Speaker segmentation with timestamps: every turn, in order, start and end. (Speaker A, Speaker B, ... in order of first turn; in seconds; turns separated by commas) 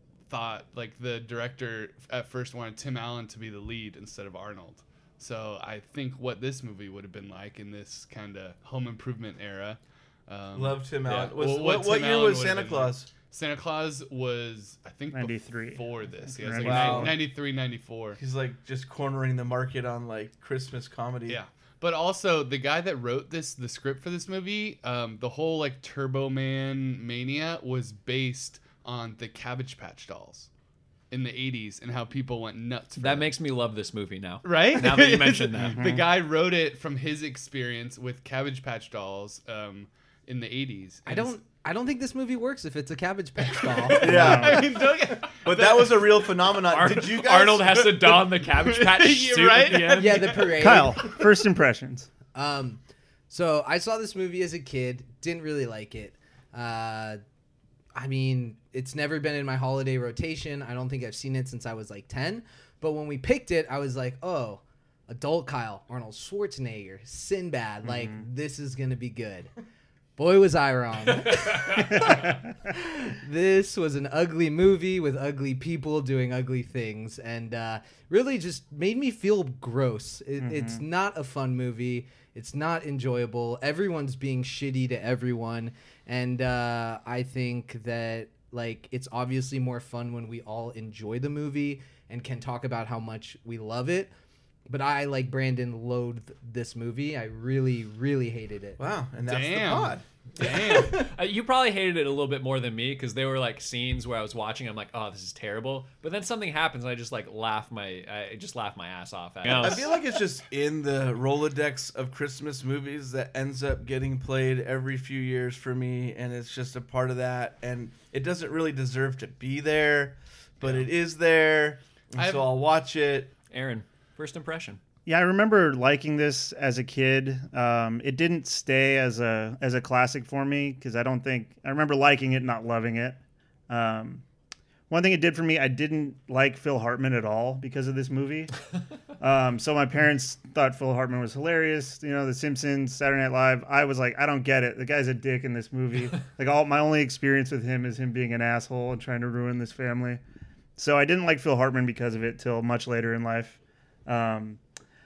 Speaker A: 0.3-18.2, Speaker B: 10.5-13.1, Speaker C: 11.1-11.3, Speaker D: 15.1-17.2, Speaker B: 16.6-17.3, Speaker B: 18.2-21.4, Speaker A: 21.3-30.5, Speaker A: 31.1-33.4, Speaker C: 33.0-36.0, Speaker A: 34.4-41.3, Speaker D: 35.7-36.0, Speaker E: 41.1-44.4, Speaker A: 43.7-46.4, Speaker B: 44.0-44.8, Speaker D: 44.0-44.7, Speaker B: 45.5-47.9, Speaker C: 46.7-50.6, Speaker A: 47.9-50.2, Speaker E: 49.9-51.0, Speaker D: 50.6-52.1, Speaker E: 52.3-57.2, Speaker E: 58.0-69.5, Speaker D: 67.8-68.2, Speaker E: 70.2-94.1, Speaker D: 80.4-80.8, Speaker E: 94.7-98.8, Speaker B: 98.8-100.0, Speaker A: 99.3-101.0, Speaker C: 100.4-110.0, Speaker E: 100.4-101.0, Speaker B: 109.4-123.3, Speaker A: 122.2-122.5, Speaker C: 123.5-124.8, Speaker D: 125.1-134.2, Speaker D: 134.9-138.5, Speaker D: 139.2-150.2, Speaker D: 150.8-154.6